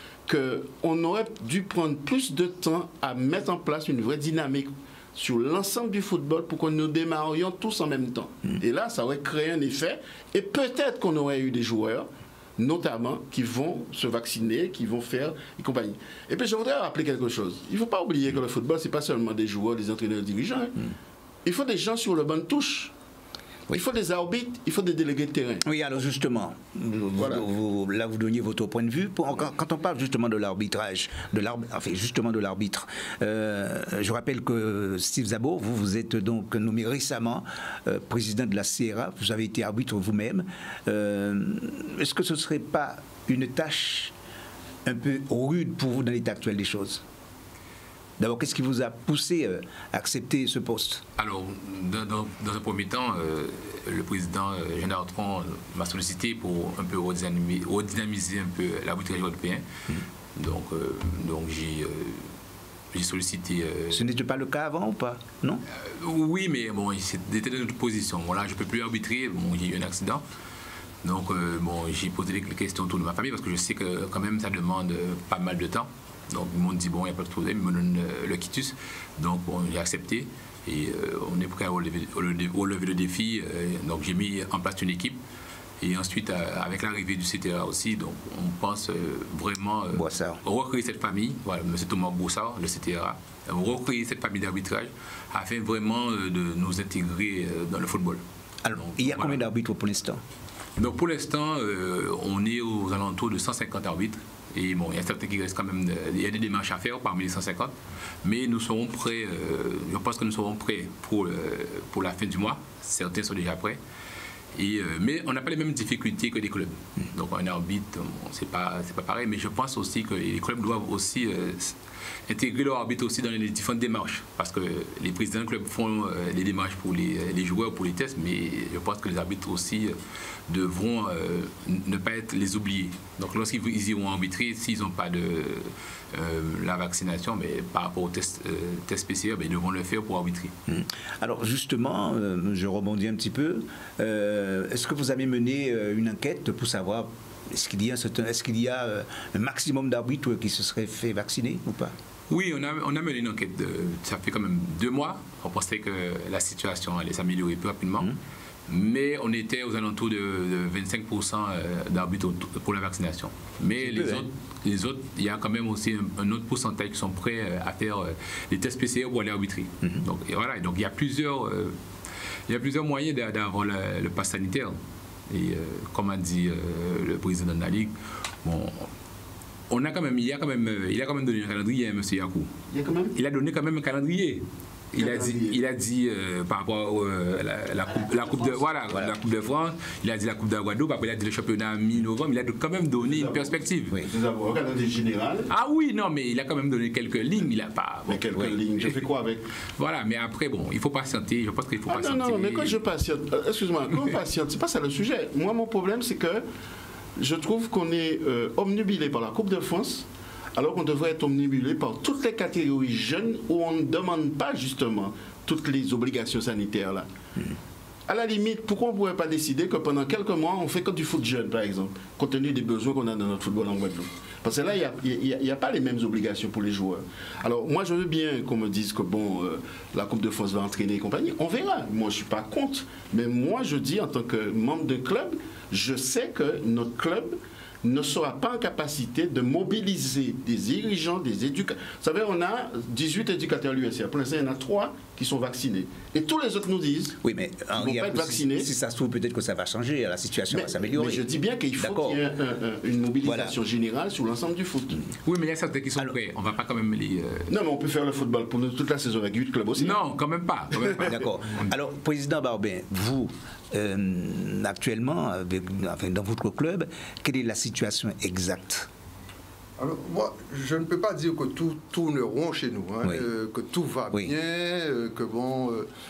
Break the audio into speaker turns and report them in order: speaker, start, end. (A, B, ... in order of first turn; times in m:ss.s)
0:00.3-0:20.8 A
0:21.4-0:22.9 A
0:23.7-0:25.6 A
0:25.6-0:44.1 B
0:27.2-0:27.4 A
0:44.8-0:47.0 B
0:48.2-0:51.0 B
0:51.2-0:59.6 C
1:00.4-1:02.3 C
1:02.9-1:04.0 C
1:03.9-1:05.6 B
1:05.7-1:10.2 C
1:11.0-1:25.2 C
1:25.8-1:38.2 C
1:29.9-1:30.4 B
1:38.6-1:40.2 B
1:38.8-1:39.4 C
1:40.8-1:53.8 C
1:54.5-2:01.8 C
2:02.3-2:20.5 C
2:20.7-2:32.0 B
2:32.3-2:38.1 C
2:38.7-2:51.8 C
2:43.6-2:44.3 B
2:52.5-2:54.8 C
2:55.3-2:58.9 C
2:59.7-3:02.5 C
3:02.7-3:03.2 A
3:03.2-3:14.0 C
3:05.0-3:05.6 A
3:13.1-3:13.5 A
3:14.0-3:15.5 A
3:15.5-3:19.0 C
3:18.1-3:19.5 A
3:19.8-3:22.8 C
3:21.9-3:26.4 A
3:27.2-3:37.1 A
3:38.1-4:07.2 A
4:07.2-4:11.3 B
4:07.8-4:08.7 A
4:10.5-4:15.0 A
4:11.8-4:12.2 B
4:13.2-4:13.6 B
4:15.2-4:17.5 C
4:17.5-4:20.0 A
4:19.8-4:21.7 C
4:21.1-4:28.9 B
4:29.8-4:35.9 D